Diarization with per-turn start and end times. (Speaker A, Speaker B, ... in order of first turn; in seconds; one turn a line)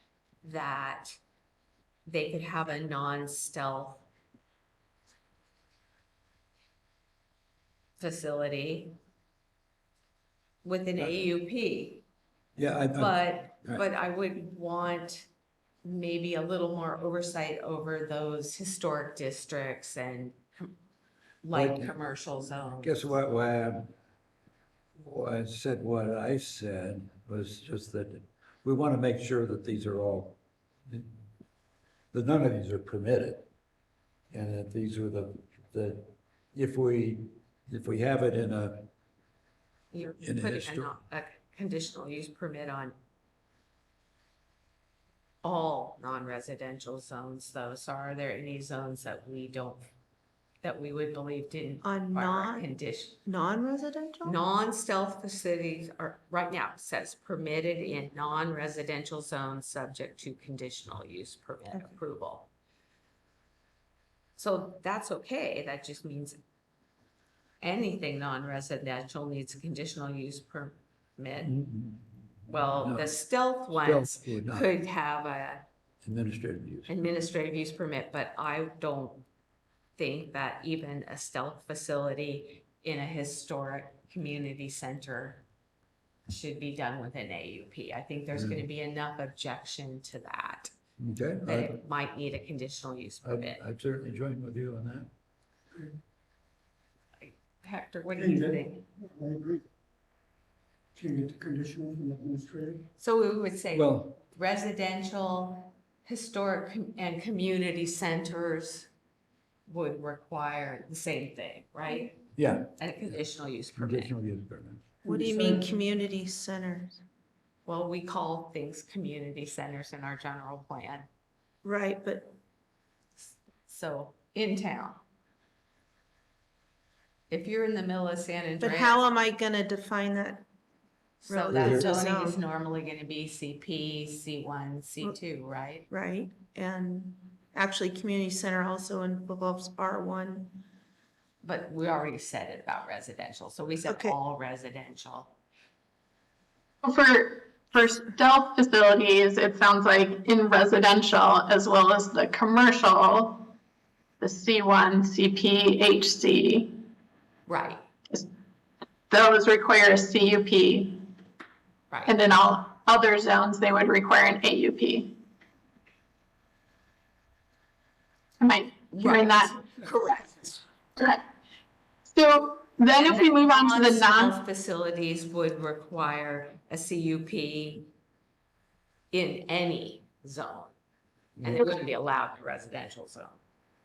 Speaker A: 0.4-1.2
Speaker A: 2.0-4.0
Speaker A: 8.0-8.9
Speaker A: 10.6-12.0
Speaker B: 12.6-13.8
Speaker A: 12.9-15.3
Speaker A: 15.8-20.7
Speaker A: 21.4-23.1
Speaker B: 21.5-21.9
Speaker B: 22.8-23.9
Speaker B: 25.0-31.1
Speaker B: 32.1-33.5
Speaker B: 34.3-38.9
Speaker A: 39.9-42.9
Speaker B: 40.2-41.0
Speaker A: 45.4-49.8
Speaker A: 50.6-53.2
Speaker C: 51.8-52.7
Speaker C: 53.2-54.4
Speaker A: 54.2-62.5
Speaker A: 64.4-66.4
Speaker A: 67.6-71.5
Speaker B: 71.4-73.1
Speaker A: 72.5-75.6
Speaker B: 73.8-74.7
Speaker B: 76.0-77.0
Speaker A: 76.9-79.2
Speaker A: 80.0-85.4
Speaker A: 86.3-90.7
Speaker B: 88.3-88.6
Speaker B: 91.0-91.8
Speaker A: 91.4-93.6
Speaker B: 93.2-95.1
Speaker A: 97.2-98.8
Speaker D: 99.2-99.5
Speaker D: 101.0-102.8
Speaker A: 103.0-108.9
Speaker B: 103.7-104.2
Speaker A: 109.7-114.1
Speaker B: 112.3-113.1
Speaker B: 113.8-115.0
Speaker A: 115.0-115.7
Speaker C: 115.0-117.0
Speaker A: 117.7-121.1
Speaker C: 121.6-122.3
Speaker A: 123.2-125.0
Speaker A: 127.3-129.0
Speaker C: 128.6-130.4
Speaker C: 131.2-132.4
Speaker A: 131.2-135.9
Speaker B: 131.5-131.9
Speaker C: 135.9-140.6
Speaker A: 141.4-145.3
Speaker C: 143.9-144.2
Speaker E: 146.8-153.5
Speaker E: 154.2-156.8
Speaker A: 157.5-157.8
Speaker E: 159.1-161.0
Speaker A: 161.9-162.2
Speaker E: 162.1-165.1
Speaker E: 168.4-169.6
Speaker A: 168.9-170.6
Speaker E: 171.0-171.2
Speaker E: 172.1-174.3
Speaker A: 172.9-177.9
Speaker A: 179.1-180.7
Speaker A: 181.4-183.4